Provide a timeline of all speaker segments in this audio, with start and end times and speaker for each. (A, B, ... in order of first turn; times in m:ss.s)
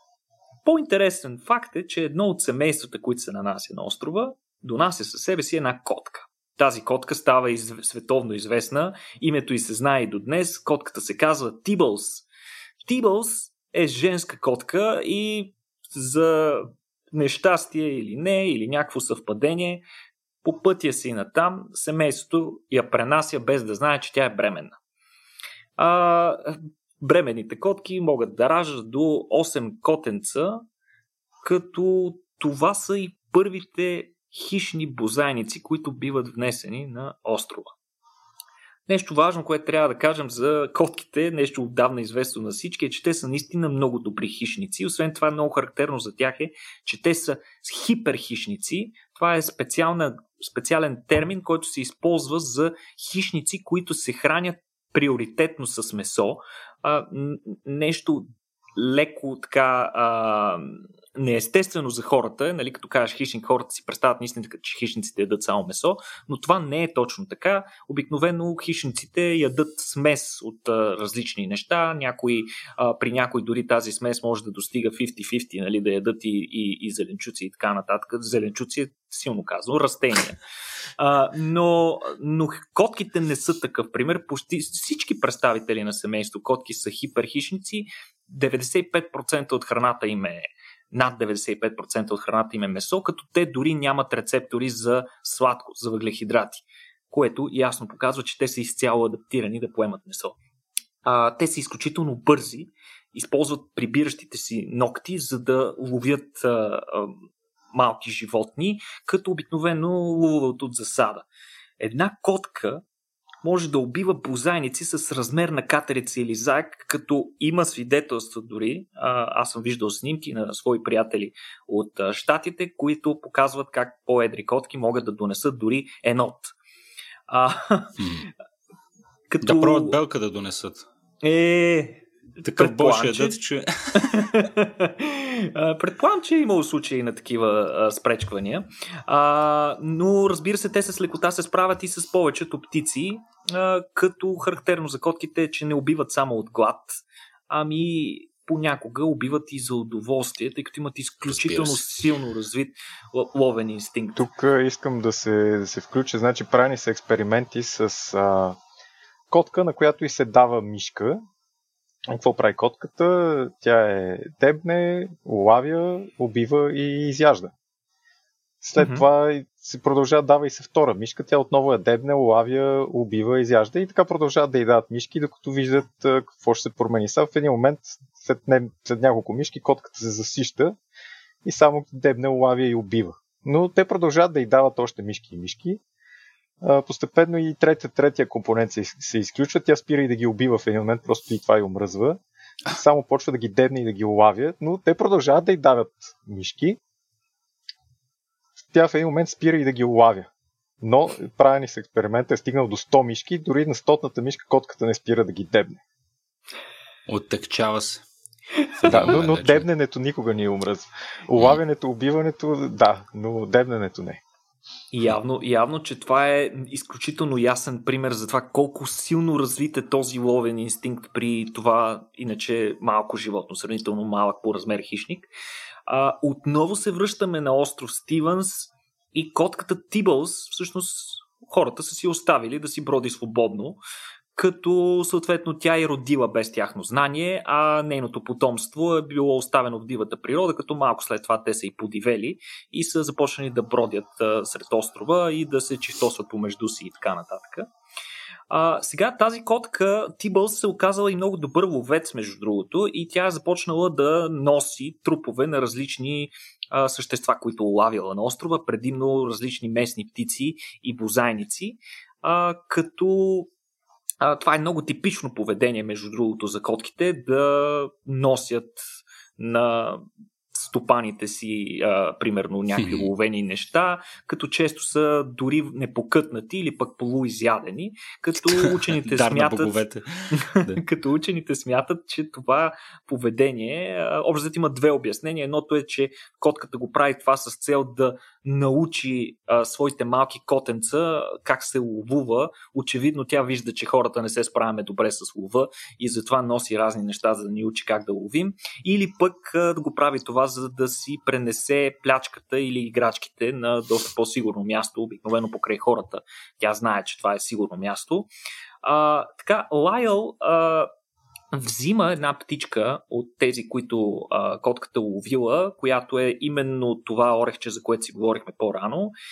0:00.6-0:12.2 A
0:12.8-0:19.8 A
0:20.4-0:24.8 A
0:25.8-0:30.6 A
0:31.4-0:37.7 A
0:38.9-1:20.4 A
1:21.0-1:40.4 A
1:41.0-1:51.2 A
1:51.8-1:52.8 A
1:53.4-2:06.5 A
2:07.3-2:08.0 A
2:08.0-2:08.3 B
2:09.3-2:09.9 A
2:09.4-2:10.8 B
2:11.2-2:13.4 A
2:12.4-2:14.4 B
2:13.9-2:34.2 A
2:31.2-2:31.8 B
2:34.2-2:38.6 C
2:39.3-2:41.2 C
2:42.1-2:47.5 C
2:48.6-3:00.8 C
2:48.8-2:49.0 A
3:01.4-3:05.8 C
3:06.6-3:16.8 C
3:18.7-3:20.3 C
3:20.8-3:25.8 C
3:27.1-3:28.0 B
3:28.8-3:29.6 B
3:28.9-3:34.2 C
3:34.9-3:45.3 A
3:45.9-3:53.8 A
3:54.3-4:07.7 A
4:08.5-4:23.5 A
4:24.2-4:28.8 A
4:29.4-5:08.3 A
4:32.8-4:33.1 B
4:38.5-4:40.8 B
5:08.8-5:10.9 A
5:11.5-5:19.1 A